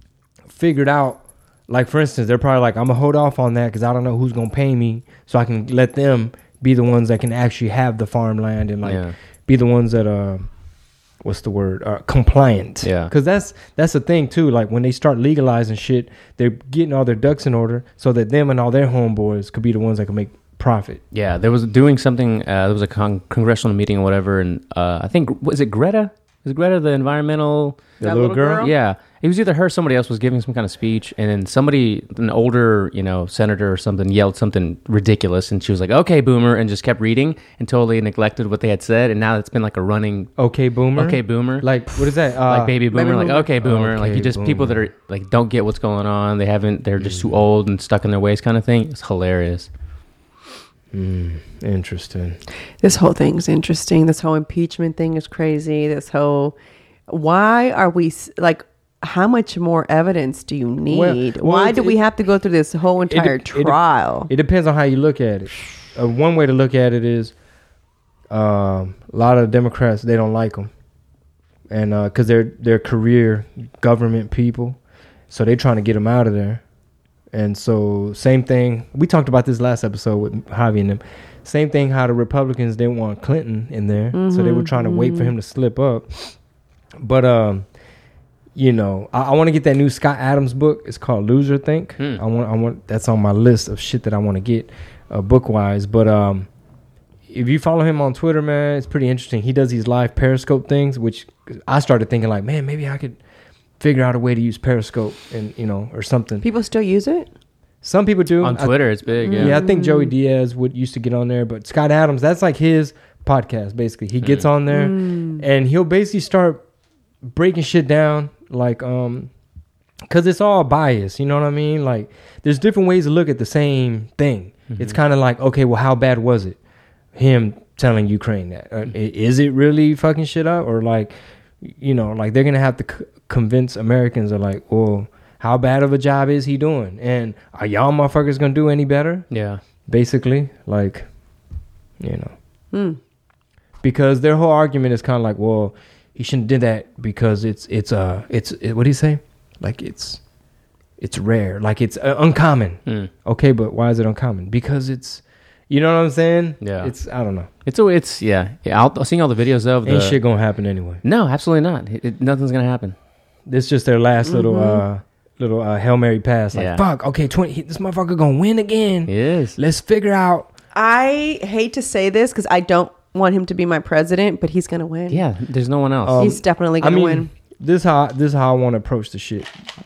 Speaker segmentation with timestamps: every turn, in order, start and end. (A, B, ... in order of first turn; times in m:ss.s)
0:00.5-0:10.5 A
0:08.8-0:09.1 B
0:11.2-0:21.0 A
0:12.8-0:13.1 B
0:21.1-0:27.9 B
0:28.0-0:28.7 C
0:28.0-0:28.7 A
0:28.6-0:40.3 B
0:40.4-0:42.7 A
0:40.9-0:41.7 B
0:42.4-0:49.7 B
0:42.9-0:43.5 C
0:43.6-0:44.9 A
0:47.0-0:47.3 A
0:50.9-0:52.4 A
0:52.8-0:56.5 C
0:57.1-1:04.3 C
1:00.9-1:02.0 A
1:03.1-1:03.8 A
1:04.3-1:07.3 A
1:08.3-1:10.7 A
1:11.7-1:14.8 A
1:15.3-1:16.6 A
1:17.3-1:26.3 A
1:24.1-1:25.3 C
1:27.0-1:27.6 A
1:28.5-1:36.5 A
1:37.3-1:43.2 A
1:43.8-1:46.4 A
1:46.4-1:47.3 C
1:47.8-1:48.7 A
1:48.4-1:49.6 B
1:49.2-1:50.1 C
1:49.4-1:56.6 A
1:54.7-1:55.4 C
1:57.3-1:59.3 A
2:00.1-2:06.6 A
2:04.7-2:05.0 B
2:07.1-2:19.2 A
2:19.3-2:19.6 B
2:19.9-2:21.1 A
2:22.0-2:22.3 A
2:22.7-2:23.0 C
2:23.8-2:30.2 A
2:31.0-2:37.5 A
2:36.6-2:36.9 B
2:37.6-2:40.2 B
2:39.8-2:41.0 A
2:41.0-2:42.9 B
2:43.5-2:50.5 A
2:44.2-2:44.8 C
2:46.5-2:46.8 B
2:49.1-2:49.6 B
2:50.7-2:55.2 C
2:55.1-2:56.3 B
2:56.0-2:59.5 A
2:56.2-2:57.3 C